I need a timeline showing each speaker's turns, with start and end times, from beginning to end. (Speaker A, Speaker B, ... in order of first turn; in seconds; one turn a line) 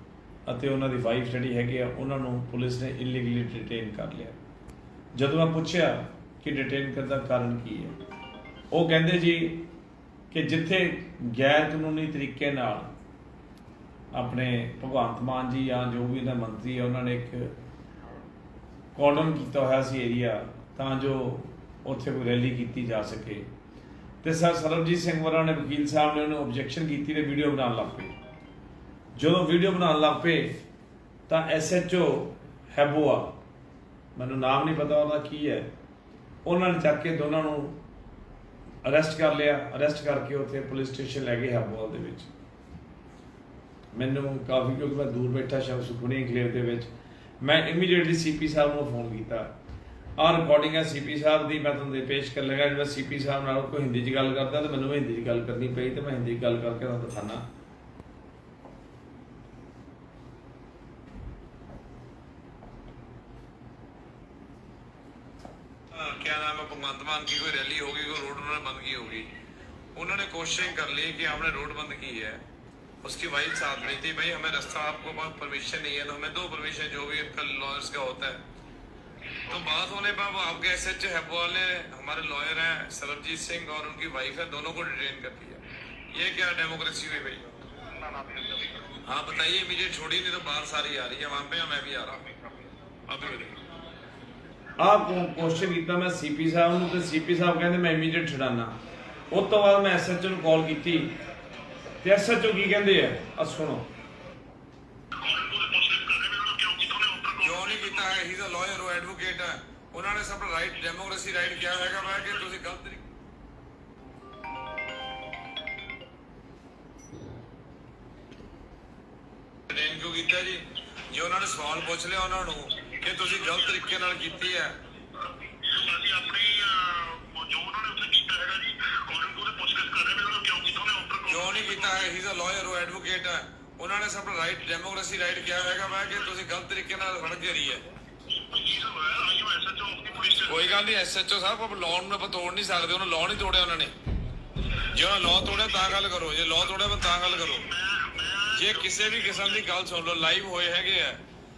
Speaker A: 0.5-4.4
Speaker A: 5.2-8.0
Speaker A: 8.7-9.7
Speaker A: 10.3-12.9
Speaker A: 14.1-17.5
Speaker A: 18.9-23.5
Speaker A: 24.2-28.1
Speaker A: 29.2-30.6
Speaker A: 31.3-33.3
Speaker A: 34.1-35.7
Speaker A: 36.5-37.8
Speaker A: 38.8-42.3
Speaker A: 43.9-46.9
Speaker A: 47.4-49.5
Speaker A: 50.2-57.5
Speaker B: 65.9-69.3
Speaker B: 70.0-72.4
Speaker B: 73.0-78.4
Speaker B: 79.5-85.6
Speaker B: 86.1-87.4
Speaker C: 88.0-88.8
Speaker B: 89.0-92.3
Speaker B: 93.1-93.6
Speaker A: 94.8-98.7
Speaker A: 99.3-101.2
Speaker A: 102.0-103.9
Speaker C: 105.2-108.1
Speaker B: 107.4-113.0
Speaker B: 119.7-124.7
Speaker C: 125.6-132.1
Speaker B: 131.3-137.8
Speaker C: 138.5-140.8
Speaker B: 140.5-143.9
Speaker B: 144.9-147.7
Speaker C: 147.2-149.7
Speaker B: 148.6-151.2